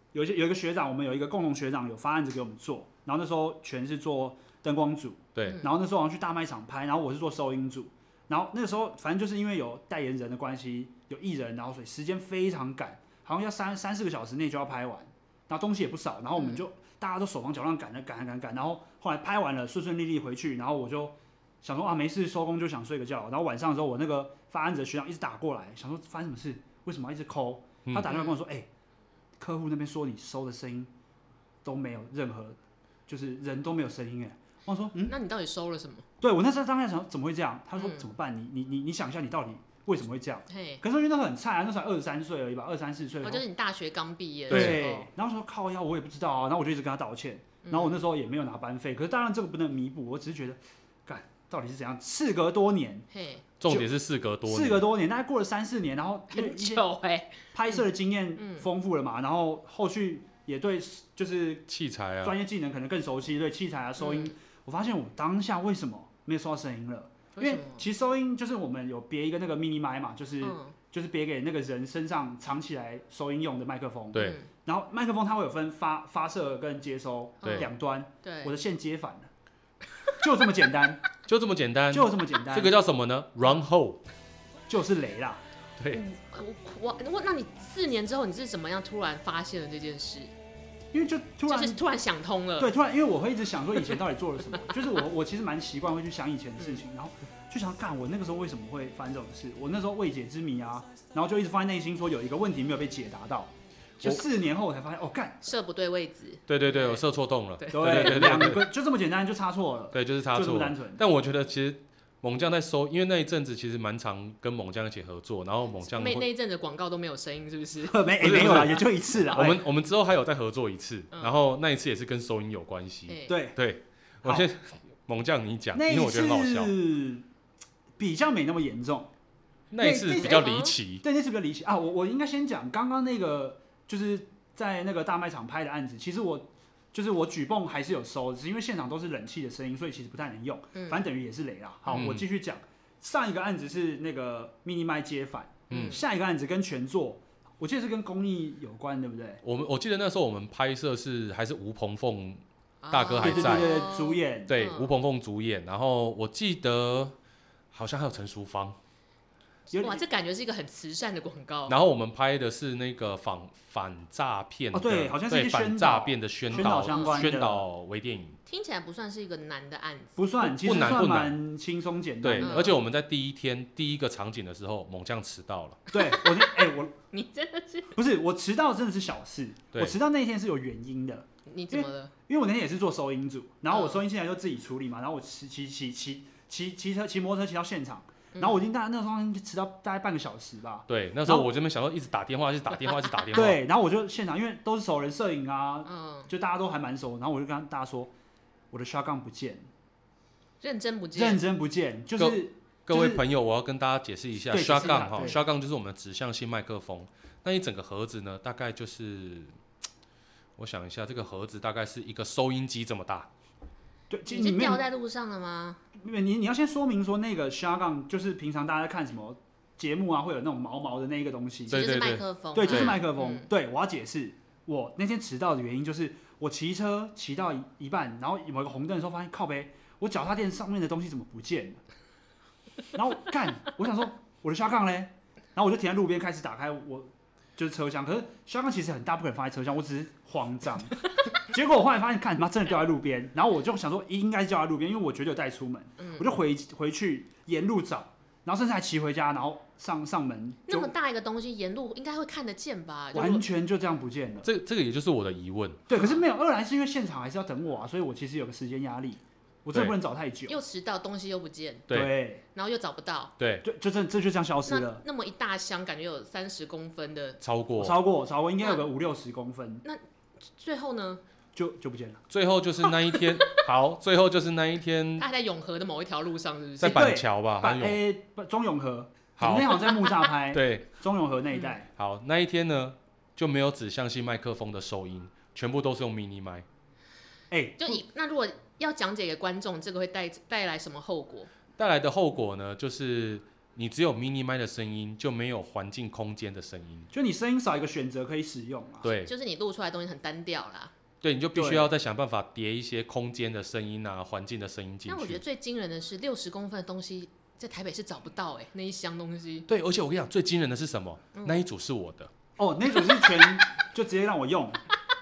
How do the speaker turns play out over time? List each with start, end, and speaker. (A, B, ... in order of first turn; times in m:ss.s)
0:00.1-0:28.7 A
0:05.3-0:05.6 B
0:05.4-0:05.7 C
0:16.3-0:16.6 C
0:28.0-0:28.4 C
0:29.4-0:30.9 A
0:31.6-0:35.2 A
0:35.1-0:36.0 C
0:36.2-0:43.4 A
0:37.8-0:38.1 C
0:40.5-0:40.8 C
0:43.2-0:45.1 C
0:44.5-0:44.8 B
0:44.5-0:53.1 A
0:47.6-0:48.0 C
0:53.1-0:53.4 C
0:53.6-0:54.8 B
0:54.4-0:56.9 A
0:56.3-0:57.8 C
0:57.5-1:01.6 A
0:58.4-0:58.7 C
1:01.7-1:02.4 B
1:02.2-1:19.3 A
1:04.0-1:04.3 C
1:07.3-1:07.8 C
1:10.4-1:10.7 C
1:14.1-1:14.5 C
1:17.4-1:17.7 C
1:17.4-1:17.7 B
1:18.2-1:18.5 C
1:20.2-1:21.0 A
1:21.2-1:24.0 B
1:21.9-1:22.8 A
1:24.7-1:25.4 A
1:25.9-1:30.3 C
1:30.9-1:31.8 A
1:31.5-1:32.7 C
1:32.6-1:45.5 A
1:45.4-1:47.0 C
1:46.5-1:48.7 B
1:47.6-1:48.4 C
1:47.7-1:51.0 A
1:49.9-1:56.3 B
1:55.9-1:58.7 C
1:57.9-1:59.6 A
1:58.2-2:06.7 B
2:03.1-2:03.4 C
2:03.3-2:03.6 A
2:05.7-2:07.2 A
2:08.0-2:09.1 A
2:09.7-2:11.0 B
2:09.8-2:29.4 A
2:10.1-2:10.8 C
2:20.7-2:21.0 C
2:21.9-2:22.2 B
2:25.7-2:26.0 B
2:25.7-2:26.0 C
2:29.4-2:33.8 B
2:32.8-2:34.9 C
2:33.2-2:34.5 A
2:34.5-2:37.2 B
2:37.7-2:38.8 B
2:39.7-2:40.0 A
2:39.7-2:41.8 C
2:41.7-2:48.4 B
2:44.7-2:47.6 A
2:46.5-2:47.2 C
2:48.4-2:50.2 C
2:50.2-2:52.8 A
2:50.4-2:51.4 B
2:52.2-2:55.8 B
2:52.4-2:52.8 C
2:55.9-2:56.9 A
2:55.9-2:58.0 C
2:57.9-3:11.5 A
3:01.4-3:02.1 C
3:03.7-3:04.0 C
3:08.3-3:08.6 C
3:10.9-3:13.6 B
3:12.9-3:13.2 C
3:13.3-3:18.1 A
3:15.8-3:16.3 C
3:18.7-3:19.7 A
3:20.6-3:21.4 C
3:21.1-3:23.2 A
3:22.2-3:29.5 B
3:24.5-3:25.4 A
3:24.8-3:25.4 C
3:30.6-3:33.3 B
3:34.1-3:34.8 A
3:34.3-3:35.8 C
3:36.0-3:41.9 A
3:41.7-3:43.0 B
3:41.7-3:43.5 C
3:42.5-3:51.8 A
3:52.9-4:10.9 A
4:06.0-4:06.3 C
4:10.7-4:13.4 C
4:13.1-4:14.5 A
4:14.4-4:15.8 B
4:15.9-4:20.6 A
4:16.0-4:16.2 C
4:20.5-4:21.9 C
4:21.9-4:22.2 B
4:21.9-4:22.4 A
4:22.4-4:23.3 C
4:23.4-4:23.6 B
4:23.6-4:25.0 A
4:24.6-4:27.4 C
4:27.4-4:28.0 B
4:27.8-4:29.8 A
4:30.5-4:31.2 C
4:31.5-4:32.2 A
4:32.3-4:35.2 B
4:32.9-4:33.6 C
4:35.2-4:37.1 C
4:36.8-4:38.0 B
4:36.8-4:41.9 A
4:39.4-4:39.9 B
4:40.5-4:40.9 B
4:42.0-4:46.6 B
4:47.5-4:48.0 A
4:47.8-4:51.5 C
4:51.8-4:57.1 B
4:57.1-4:59.1 A
4:59.0-4:59.3 B
4:59.2-5:00.9 C
5:01.2-5:05.4 B
5:01.5-5:01.9 A
5:05.1-5:09.7 C
5:09.7-5:12.3 B
5:11.3-5:11.6 C
5:12.6-5:14.8 A
5:13.0-5:13.5 C